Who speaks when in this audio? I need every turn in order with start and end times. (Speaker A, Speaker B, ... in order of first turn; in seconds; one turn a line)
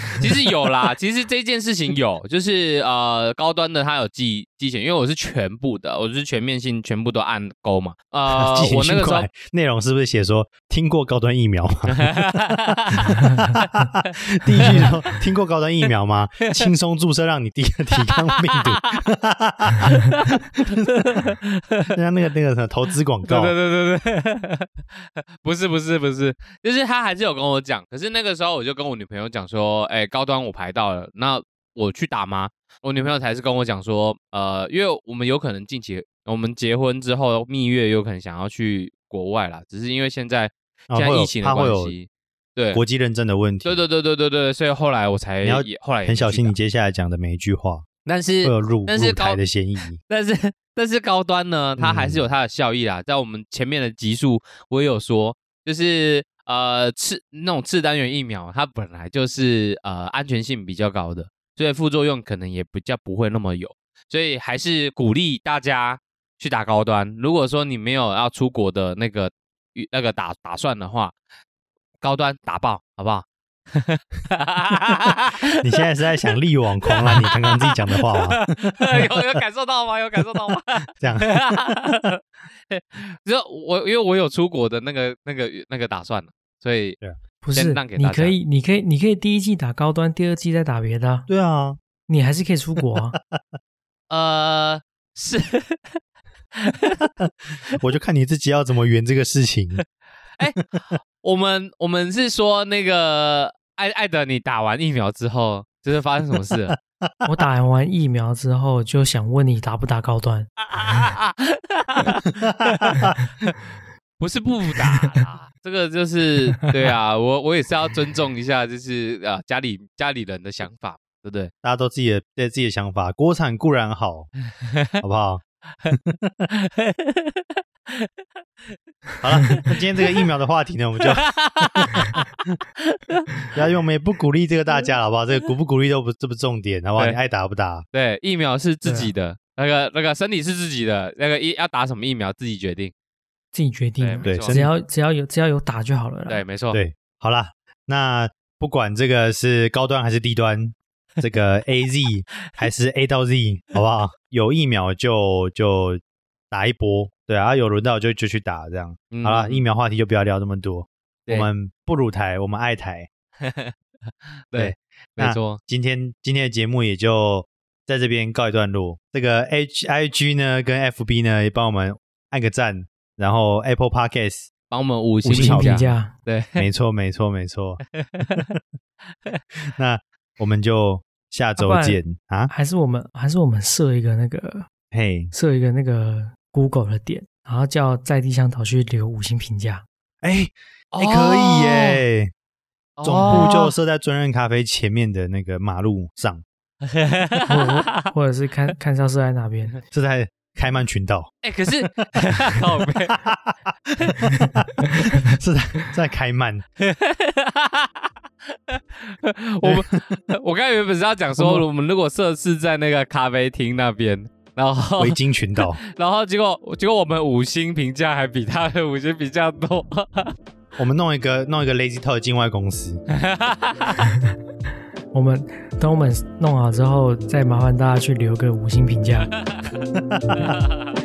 Speaker A: 0.2-9.3
Speaker B: 8.3-12.3
Speaker A: 11.9-13.1
Speaker B: 13.1-21.3
Speaker C: 13.1-13.5
Speaker A: 14.7-14.9
Speaker A: 18.0-19.0
Speaker A: 19.9-20.3
Speaker A: 20.9-21.9
Speaker B: 21.9-23.5
Speaker A: 23.3-42.8
Speaker B: 40.9-41.9
Speaker B: 42.7-43.8
Speaker A: 43.6-46.5
Speaker B: 45.4-47.9
Speaker A: 48.1-49.4
Speaker B: 48.4-50.0
Speaker A: 50.1-71.1
Speaker B: 51.8-52.2
Speaker A: 72.0-75.8
Speaker B: 75.6-79.4
Speaker A: 76.8-87.0
Speaker B: 80.4-81.4
Speaker C: 87.4-91.3
Speaker A: 87.5-88.4
Speaker B: 91.3-91.8
Speaker C: 92.1-93.2
Speaker B: 93.2-93.4
Speaker A: 94.1-96.0
Speaker A: 96.6-97.0
Speaker B: 97.7-99.8
Speaker A: 100.4-106.8
Speaker C: 107.2-110.5
Speaker A: 110.7-113.6
Speaker B: 112.3-113.2
Speaker A: 114.2-121.5
Speaker B: 121.6-124.3
Speaker A: 124.6-124.9
Speaker B: 125.0-126.5
Speaker A: 126.6-128.1
Speaker B: 129.2-132.1
Speaker A: 129.4-130.3
Speaker A: 131.1-133.4
Speaker B: 133.5-137.8
Speaker A: 137.9-142.9
Speaker C: 138.8-139.1
Speaker C: 143.5-146.4
Speaker A: 144.0-144.6
Speaker B: 144.2-144.7
Speaker A: 146.3-146.8
Speaker B: 146.7-163.1
Speaker A: 159.1-159.6
Speaker A: 163.4-163.7
Speaker A: 164.5-165.6
Speaker B: 164.6-174.5
Speaker A: 174.7-176.7
Speaker B: 175.2-175.9
Speaker C: 175.3-176.1
Speaker B: 176.6-178.6
Speaker A: 178.0-178.4
Speaker B: 179.7-182.5
Speaker C: 181.6-184.7
Speaker B: 184.9-185.3
Speaker C: 185.3-189.9
Speaker B: 190.2-192.3
Speaker A: 190.9-192.0
Speaker A: 193.0-193.7
Speaker B: 193.0-196.4
Speaker C: 193.3-193.6
Speaker A: 196.9-198.1
Speaker C: 197.5-199.8
Speaker B: 199.9-201.3
Speaker A: 201.4-203.2
Speaker B: 202.1-206.7
Speaker A: 206.8-220.3
Speaker B: 209.6-210.2
Speaker C: 211.4-211.6
Speaker B: 215.0-215.8
Speaker B: 220.8-223.0
Speaker A: 223.2-224.1
Speaker C: 225.1-229.3
Speaker B: 229.9-230.6